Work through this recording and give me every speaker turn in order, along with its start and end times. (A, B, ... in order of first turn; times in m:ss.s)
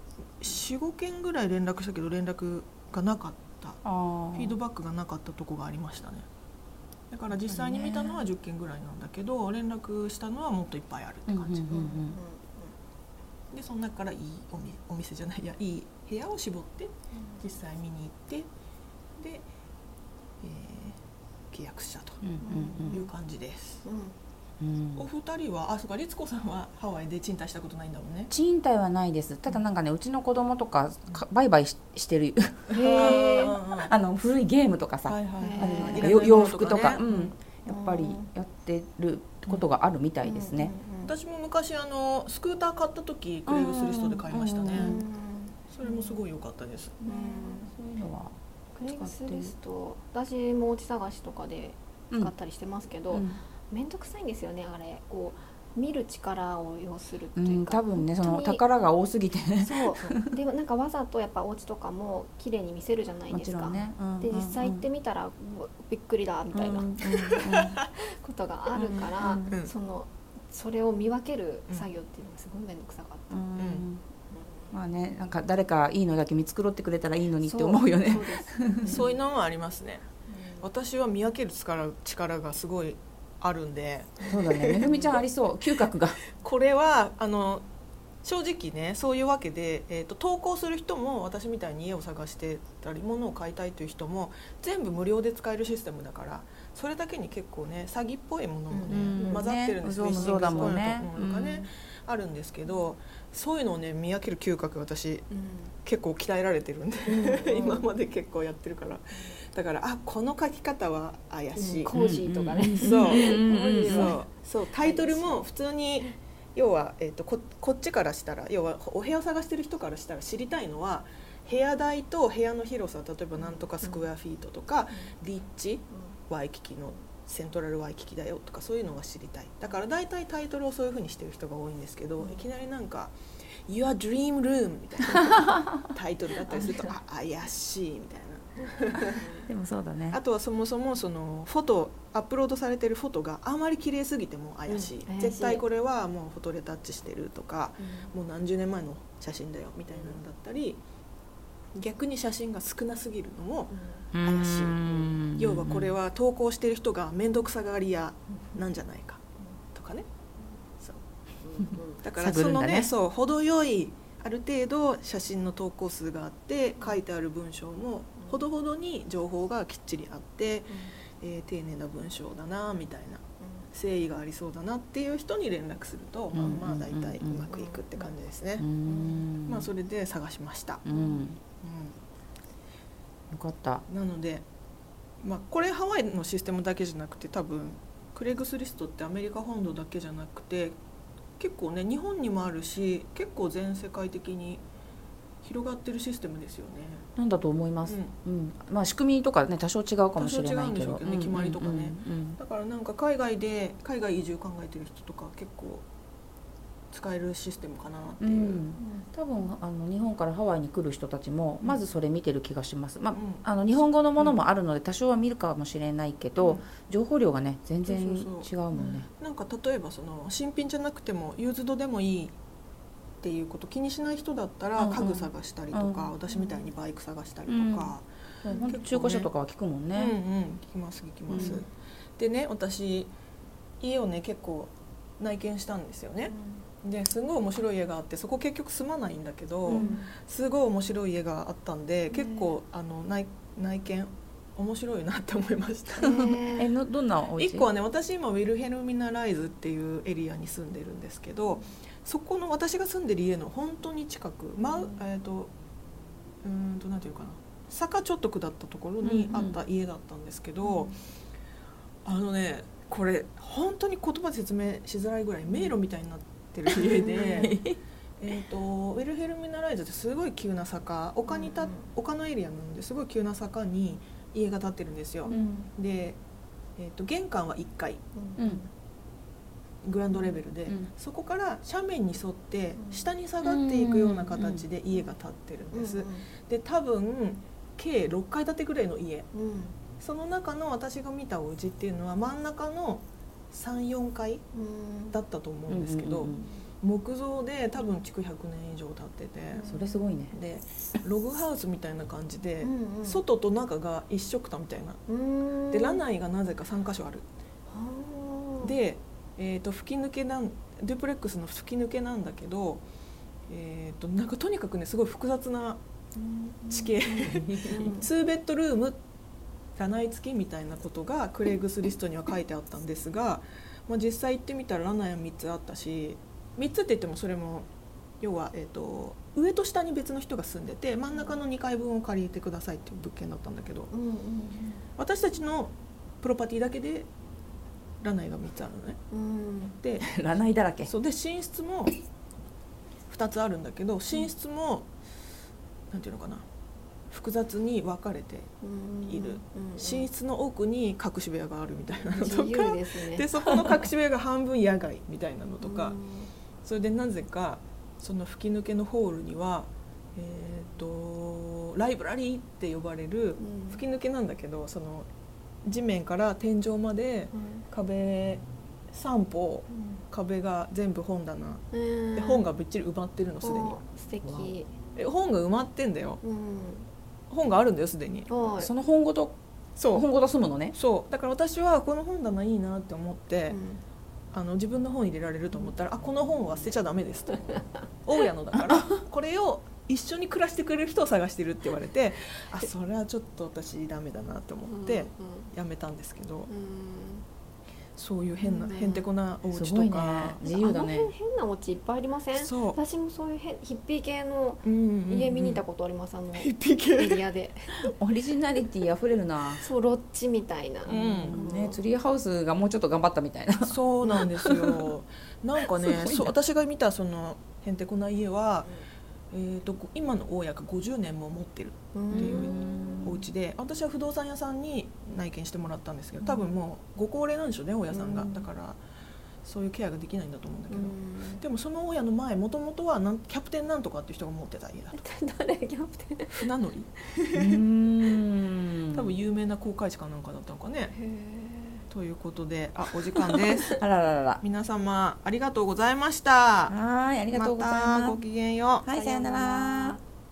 0:00.4-0:03.8 A
0:03.8-0:04.5 B
0:04.3-0:06.2 A
0:07.1-0:12.0 A
0:07.3-0:08.2 B
0:11.3-0:12.2 B
0:11.7-0:12.7 C
0:13.5-0:18.5 A
0:17.1-0:17.4 C
0:19.2-0:19.4 A
0:20.4-0:21.0 A
0:21.5-0:23.8 A
0:22.2-0:23.0 B
0:22.4-0:23.1 C
0:23.8-0:24.2 C
0:24.6-0:25.0 B
0:25.0-0:28.3 A
0:28.3-0:40.7 B
0:32.7-0:33.9 A
0:32.7-0:33.4 C
0:35.0-0:37.3 A
0:35.4-0:36.1 C
0:37.7-0:38.3 C
0:40.2-0:41.1 C
0:41.0-0:45.0 A
0:43.5-0:45.0 B
0:44.7-0:46.2 C
0:45.7-0:47.0 A
0:47.0-0:49.5 B
0:47.0-0:47.7 C
0:48.8-0:58.6 C
0:53.1-0:53.4 B
0:57.4-1:00.2 B
0:59.6-1:06.9 C
1:03.3-1:04.8 B
1:06.5-1:07.8 B
1:07.9-1:13.5 C
1:08.8-1:09.6 B
1:13.3-1:14.0 B
1:13.6-1:13.8 A
1:14.7-1:19.0 B
1:17.4-1:19.1 C
1:18.9-1:20.1 A
1:20.3-1:20.7 C
1:20.6-1:25.2 A
1:24.2-1:26.2 B
1:26.3-1:27.6 A
1:28.2-1:45.2 A
1:38.7-1:39.5 C
1:38.9-1:41.7 B
1:40.1-1:40.8 C
1:45.3-1:45.7 C
1:45.8-1:51.9 A
1:47.0-1:47.9 C
1:51.6-1:54.2 C
1:51.9-1:54.1 B
1:52.8-2:13.1 A
1:54.8-1:55.5 C
2:03.4-2:04.1 C
2:05.9-2:06.2 C
2:12.2-2:12.4 C
2:13.7-2:19.3 A
2:16.5-2:16.9 C
2:19.5-2:20.2 B
2:20.1-2:30.8 A
2:24.7-2:25.6 C
2:27.8-2:28.1 C
2:31.7-2:39.2 A
2:33.7-2:34.1 C
2:34.1-2:36.0 B
2:39.7-2:40.0 A
2:41.4-2:42.0 C
2:42.0-2:58.7 A
2:42.2-2:42.9 B
2:48.2-2:48.4 C
2:50.7-2:50.9 C
2:53.4-2:53.7 C
2:56.3-2:57.4 B
2:57.5-2:58.1 C
2:58.6-2:59.7 B
2:58.8-2:59.3 C
2:59.4-3:00.8 A
3:00.8-3:01.4 B
3:00.9-3:01.2 C
3:01.6-3:02.0 A
3:03.3-3:03.8 B
3:03.9-3:04.4 A
3:05.2-3:10.8 A
3:11.4-3:14.6 A
3:15.4-3:17.0 A
3:17.2-3:22.4 B
3:17.8-3:18.1 A
3:20.2-3:25.8 A
3:26.9-3:28.6 A
3:28.2-3:39.1 B
3:28.8-3:29.1 C
3:33.1-3:34.4 A
3:36.4-3:36.6 A
3:37.8-3:38.5 A
3:38.7-3:39.0 C
3:39.2-3:42.3 A
3:43.2-3:49.3 A
3:44.8-3:46.1 B
3:46.3-3:46.7 C
3:47.5-3:50.1 B
3:48.5-3:48.8 C
3:49.9-3:53.1 A
3:51.3-3:51.6 B
3:51.3-3:51.6 C
3:53.8-4:06.4 A
3:56.3-3:56.6 C
3:59.6-3:59.9 B
3:59.7-4:00.1 C
4:02.1-4:02.6 C
4:06.0-4:06.7 C
4:06.4-4:07.7 B
4:07.4-4:15.5 A
4:16.4-4:20.9 A
4:19.0-4:19.6 B
4:20.6-4:21.0 C
4:22.0-4:27.6 A
4:26.8-4:27.8 B
4:27.0-4:27.5 C
4:28.2-4:36.2 A
4:31.3-4:31.9 C
4:35.2-4:35.7 C
4:35.3-4:35.7 B
4:36.8-4:38.0 A
4:38.1-4:38.7 C
4:39.8-4:49.3 A
4:42.8-4:43.0 C
4:43.4-4:44.6 B
4:45.7-4:46.2 C
4:49.3-4:49.8 C
4:50.0-4:54.4 A
4:54.5-4:55.2 C
4:55.1-4:59.7 A
4:55.7-4:56.4 B
4:56.3-4:56.6 C
4:59.5-5:00.0 C
4:59.6-5:00.3 B
5:00.3-5:05.0 A
5:02.6-5:03.2 C
5:05.1-5:06.0 C
5:05.7-5:07.2 A
5:07.7-5:08.7 C
5:08.6-5:12.8 A
5:13.5-5:15.8 A
5:16.1-5:18.1 C
5:16.7-5:19.0 A
5:17.2-5:17.9 B
5:19.8-5:27.7 A
5:28.2-5:33.9 A
5:31.1-5:31.4 C
5:33.9-5:34.8 C
5:35.0-5:37.1 A
5:38.0-5:39.0 A
5:39.1-5:39.8 C
5:39.8-5:40.1 A
5:40.0-5:40.9 B
5:40.8-5:41.9 A
5:43.1-5:44.9 A
5:45.9-5:46.4 A
5:47.1-5:48.5 A
5:48.6-5:50.1 C
5:49.0-5:56.0 A
5:52.1-5:53.3 C
5:55.6-5:56.3 C
5:56.6-6:05.1 A
6:03.4-6:03.8 C
6:05.6-6:11.6 A
6:07.3-6:07.6 C
6:09.7-6:10.0 C
6:11.7-6:12.5 C
6:12.1-6:13.8 A
6:13.4-6:14.7 C
6:14.2-6:14.5 B
6:14.9-6:16.2 A
6:16.2-6:16.9 C
6:17.3-6:18.3 A
6:18.3-6:18.7 C
6:18.5-6:19.4 B
6:19.8-6:20.1 A
6:19.9-6:20.8 B
6:20.7-6:23.6 A
6:23.5-6:23.8 C
6:24.3-6:36.5 A
6:34.6-6:35.5 C
6:36.5-6:37.2 C
6:37.9-6:40.4 A
6:38.4-6:39.1 C
6:39.5-6:41.1 B
6:40.4-6:47.8 C
6:42.3-6:42.8 A
6:44.6-6:45.6 A
6:46.3-6:47.2 A
6:47.8-6:49.6 B
6:49.5-6:51.8 C
6:50.8-6:51.4 A
6:51.2-6:53.8 B
6:53.6-6:58.7 A
6:54.4-6:54.7 B
6:55.8-6:56.3 B
6:59.3-7:08.8 A
7:01.9-7:03.1 C
7:02.1-7:03.2 B
7:07.9-7:08.5 C
7:09.4-7:15.0 A
7:10.7-7:11.4 C
7:14.9-7:16.4 C
7:16.3-7:17.6 A
7:17.3-7:19.0 B
7:18.9-7:20.9 A
7:20.9-7:21.8 C
7:21.9-7:23.8 A
7:23.7-7:24.4 B
7:24.4-7:26.7 A
7:26.7-7:28.2 B
7:27.3-7:28.9 A
7:28.8-7:30.0 B
7:28.9-7:30.0 C